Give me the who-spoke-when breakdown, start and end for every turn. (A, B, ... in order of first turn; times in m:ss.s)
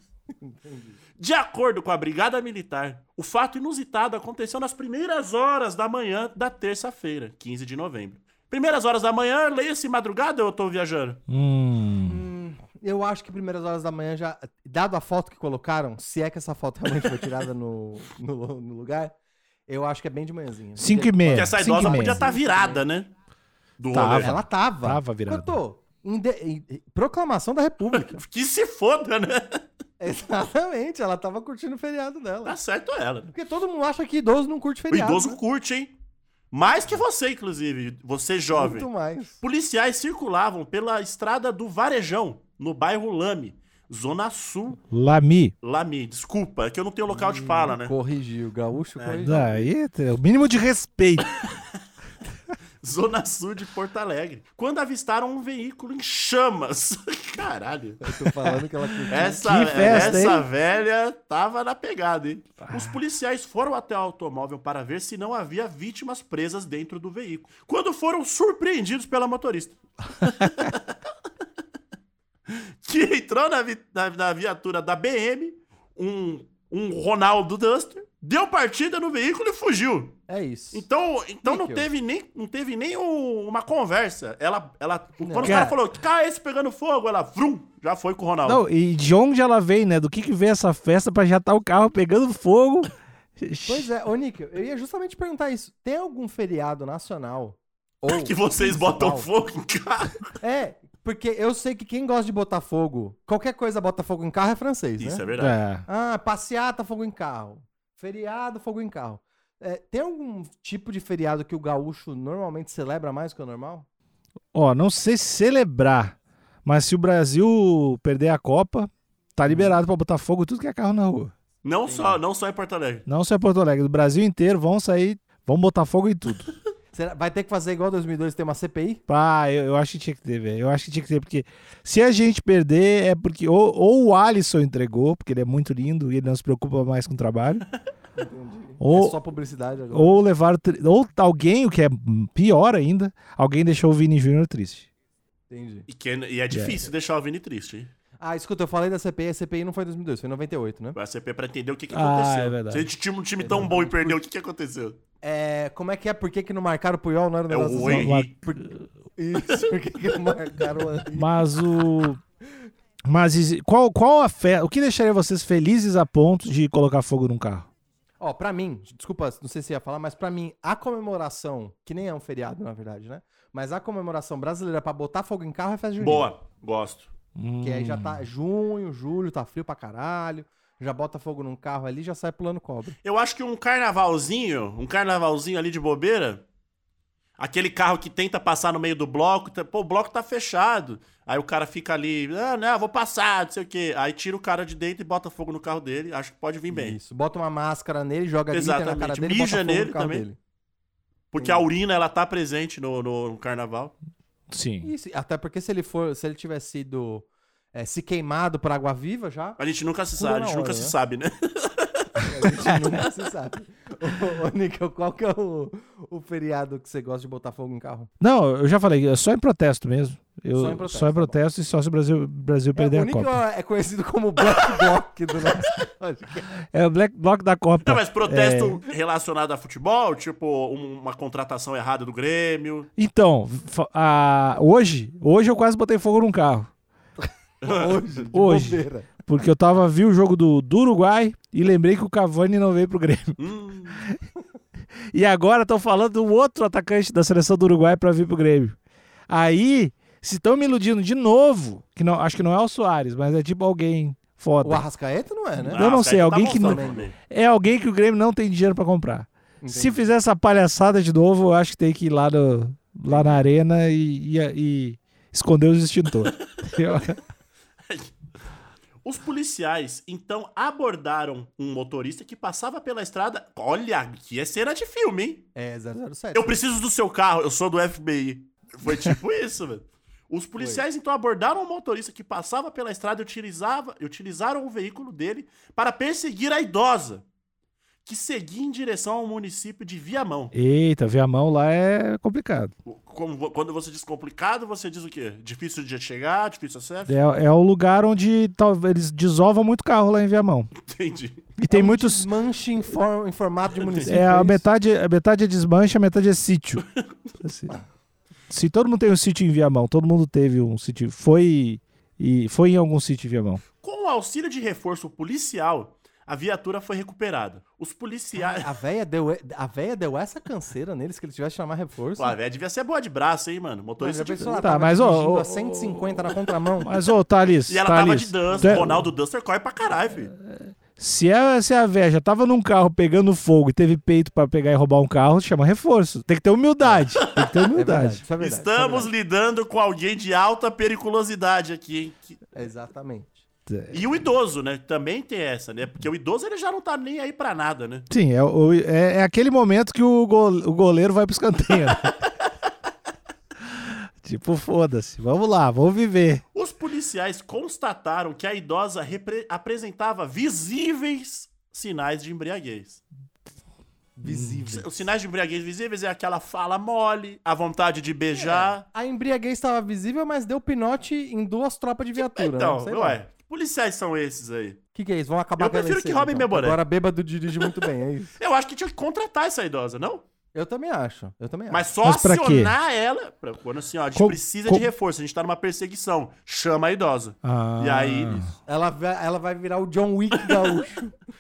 0:00.4-0:01.0 A
0:01.2-0:11.2 B
0:11.3-0:12.2 C
0:12.0-0:19.1 A
0:19.7-0:22.8 A
0:20.8-0:22.2 C
0:21.3-0:23.1 B
0:23.8-0:24.4 B
0:23.9-0:25.6 C
0:24.1-0:28.2 A
0:28.0-0:29.6 B
0:30.0-0:32.6 A
0:32.4-0:33.3 B
0:33.3-0:35.4 A
0:34.9-0:35.9 B
0:36.5-0:38.9 B
0:38.5-0:39.4 A
0:39.4-0:44.8 B
0:44.9-0:45.5 C
0:45.6-0:47.9 B
0:47.1-0:49.7 A
0:49.0-0:49.4 B
0:49.2-0:51.4 C
0:51.4-0:51.7 B
0:52.8-0:58.0 B
0:58.0-1:00.3 A
0:59.1-1:11.0 B
0:59.2-1:00.5 C
1:12.5-1:20.2 B
1:20.3-1:20.8 A
1:20.7-1:28.6 B
1:21.4-1:21.9 A
1:25.2-1:25.7 A
1:25.4-1:25.8 C
1:28.4-1:33.9 C
1:33.7-1:39.3 A
1:38.1-1:40.2 B
1:40.4-1:45.2 A
1:45.0-1:45.6 B
1:45.4-1:45.8 C
1:45.9-1:53.9 A
1:54.5-2:01.3 C
2:01.6-2:03.1 B
2:01.9-2:02.2 A
2:03.1-2:06.5 C
2:06.9-2:09.0 A
2:09.1-2:17.6 C
2:18.2-2:20.2 A
2:18.8-2:19.2 C
2:19.9-2:24.9 C
2:25.5-2:25.9 A
2:25.9-2:27.9 B
2:26.5-2:26.9 C
2:28.2-2:31.0 A
2:31.0-2:35.0 B
2:31.9-2:32.9 C
2:33.4-2:34.2 A
2:35.2-2:41.4 A
2:37.5-2:38.3 B
2:37.8-2:38.3 C
2:41.1-2:42.2 C
2:43.1-2:47.7 C
2:48.2-2:56.3 A
2:56.0-2:57.1 B
2:57.4-2:58.2 C
2:57.6-3:03.0 A
3:03.0-3:06.4 B
3:07.4-3:17.0 B
3:16.7-3:20.4 A
3:18.5-3:20.2 B
3:21.3-3:23.9 B
3:21.4-3:21.6 A
3:24.5-3:24.9 C
3:24.8-3:29.6 A
3:29.6-3:32.3 B
3:30.2-3:31.0 A
3:32.2-3:38.1 A
3:38.2-3:43.4 C
3:40.5-3:41.4 A
3:42.8-3:46.5 A
3:46.7-3:48.8 C
3:47.8-3:52.9 B
3:53.0-3:56.7 C
3:57.6-3:58.0 B
3:57.6-3:59.1 A
3:58.3-4:03.4 C
4:03.4-4:04.0 B
4:05.1-4:08.8 C
4:09.3-4:14.8 C
4:14.6-4:15.8 A
4:15.7-4:27.2 C
4:15.7-4:17.2 B
4:16.5-4:17.1 A
4:19.6-4:20.1 A
4:27.9-4:28.1 B
4:29.0-4:35.5 B
4:35.6-4:36.6 A
4:36.4-4:47.2 B
4:40.6-4:40.8 A
4:48.1-4:50.5 B
4:50.5-4:52.7 C
4:52.9-4:57.2 B
4:57.1-5:00.7 C
5:00.8-5:01.5 B
5:01.6-5:02.3 C
5:01.7-5:04.6 A
5:03.8-5:04.1 B
5:04.1-5:06.8 C
5:07.4-5:07.7 C
5:08.5-5:13.6 C
5:13.8-5:18.7 B
5:18.4-5:22.4 A
5:22.2-5:24.6 B
5:24.0-5:26.9 A
5:24.4-5:29.1 C
5:27.7-5:30.3 B
5:28.5-5:28.8 A
5:30.3-5:38.2 C
5:36.8-5:37.1 A
5:37.2-5:37.5 B
5:37.7-5:39.1 A
5:38.4-5:42.4 B
5:42.5-5:43.4 A
5:43.7-5:44.0 C
5:43.9-5:48.1 B
5:48.1-5:52.2 C
5:53.6-5:56.4 C
5:56.5-6:03.0 B
6:04.2-6:04.9 A
6:04.2-6:04.7 C
6:04.7-6:08.8 B
6:08.3-6:13.2 A
6:12.2-6:14.8 B
6:14.9-6:18.4 A
6:15.6-6:16.8 B
6:18.4-6:20.2 B
6:20.5-6:21.9 A
6:21.7-6:28.4 B
6:22.0-6:22.8 C
6:24.2-6:24.9 C
6:27.4-6:28.5 C
6:28.6-6:31.2 A
6:30.4-6:30.7 B